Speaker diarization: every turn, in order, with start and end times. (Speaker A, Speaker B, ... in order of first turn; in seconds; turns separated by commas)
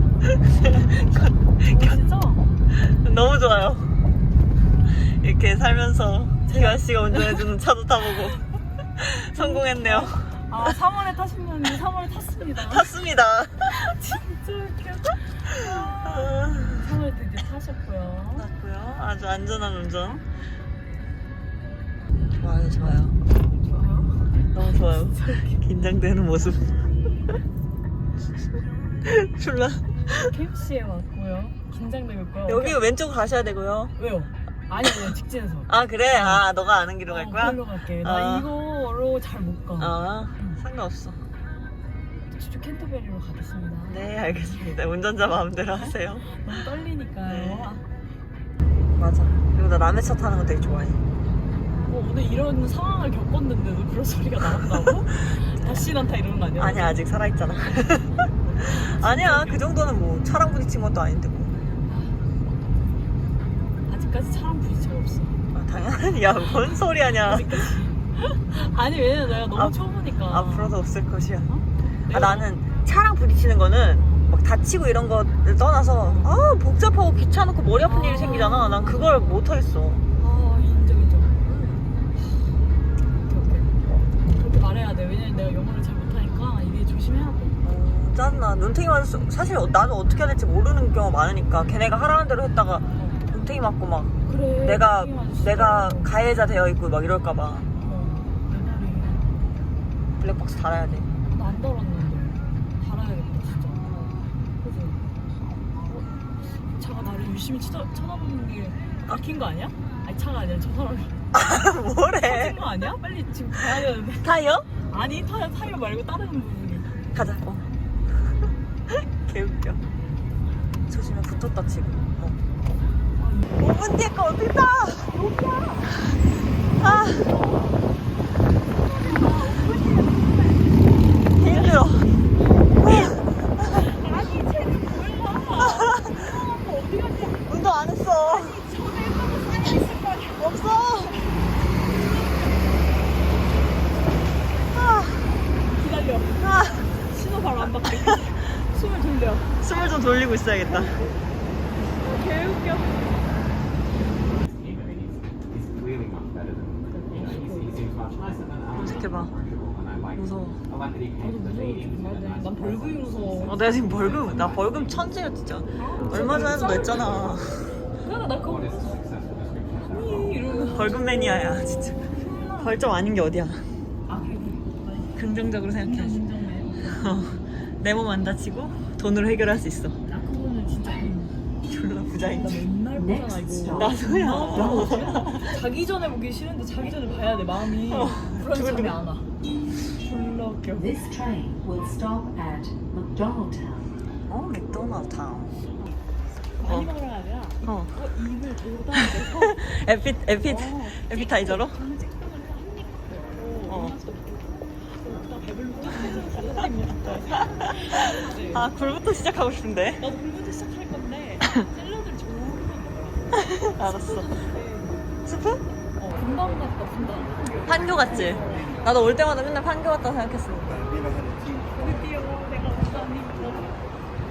Speaker A: 0.6-1.8, Speaker B: 1.6-2.6, Speaker A: 2.8-3.9, Speaker A: 4.9-8.4, Speaker B: 6.5-7.5, Speaker A: 9.0-10.4, Speaker B: 9.3-12.9, Speaker A: 12.7-13.8, Speaker B: 13.7-18.5, Speaker A: 15.8-16.8, Speaker A: 18.4-20.2, Speaker A: 22.4-23.1, Speaker B: 23.6-25.6, Speaker A: 24.5-26.7, Speaker A: 29.1-30.3, Speaker B: 30.2-32.8, Speaker A: 32.5-33.9, Speaker B: 34.0-36.5, Speaker A: 35.7-38.5, Speaker B: 37.1-40.6, Speaker A: 39.8-41.2, Speaker B: 42.3-44.0, Speaker A: 43.9-46.3, Speaker B: 45.8-47.9, Speaker A: 47.3-47.8, Speaker A: 49.0-51.0, Speaker B: 51.9-57.0, Speaker A: 56.6-58.3, Speaker B: 58.4-59.6, Speaker A: 58.9-61.6, Speaker B: 61.9-62.7, Speaker B: 63.9-65.4, Speaker A: 65.5-67.8, Speaker B: 67.1-70.8, Speaker A: 70.3-71.5, Speaker B: 71.5-72.5, Speaker A: 72.1-80.0, Speaker B: 74.0-74.3, Speaker B: 76.0-76.4, Speaker B: 77.8-79.4, Speaker B: 80.2-81.8, Speaker B: 83.3-87.6, Speaker A: 87.6-94.1, Speaker B: 93.0-93.2, Speaker B: 94.3-96.1, Speaker A: 94.6-97.7, Speaker B: 97.8-99.3, Speaker A: 100.2-101.1, Speaker B: 101.2-103.9, Speaker A: 103.9-104.2, Speaker B: 104.6-105.0, Speaker B: 106.6-111.2, Speaker A: 111.3-112.6, Speaker B: 112.2-114.3, Speaker A: 113.6-114.7, Speaker B: 114.9-117.0, Speaker A: 117.1-117.7, Speaker A: 118.9-119.8, Speaker A: 120.9-122.4, Speaker B: 123.2-123.6, Speaker A: 123.6-125.1, Speaker B: 125.1-126.0, Speaker B: 126.8-127.8, Speaker A: 126.8-127.3, Speaker B: 128.7-131.9, Speaker A: 131.3-132.2, Speaker B: 132.8-133.2, Speaker A: 132.8-133.8, Speaker B: 133.7-137.5, Speaker A: 137.5-138.6, Speaker B: 138.3-140.5, Speaker A: 140.4-141.2, Speaker A: 144.7-145.4, Speaker B: 145.7-146.4, Speaker A: 146.4-146.9, Speaker B: 147.0-149.6, Speaker A: 149.6-150.9, Speaker B: 150.7-151.0, Speaker B: 151.8-153.3, Speaker B: 156.9-158.0, Speaker A: 158.7-159.3, Speaker A: 160.2-160.6, Speaker B: 161.2-163.6, Speaker A: 163.5-167.8, Speaker B: 165.7-167.3, Speaker B: 167.9-169.1, Speaker B: 169.9-172.8, Speaker A: 170.6-173.7, Speaker B: 174.1-175.2, Speaker A: 175.2-176.2, Speaker B: 175.8-177.4, Speaker A: 177.0-180.0, Speaker B: 180.1-181.3, Speaker A: 181.7-182.7, Speaker B: 182.3-189.3, Speaker A: 183.8-185.5, Speaker A: 187.9-188.9, Speaker B: 189.9-191.0, Speaker C: 190.8-193.9, Speaker A: 194.3-195.6, Speaker B: 196.6-199.7, Speaker A: 196.6-196.9, Speaker A: 197.6-197.9, Speaker A: 199.4-201.8, Speaker B: 200.4-208.7, Speaker A: 203.7-204.0, Speaker A: 208.2-210.0, Speaker B: 210.0-215.0, Speaker A: 213.4-214.3, Speaker A: 215.3-215.6, Speaker B: 216.0-218.8, Speaker A: 217.7-220.9, Speaker B: 221.5-223.8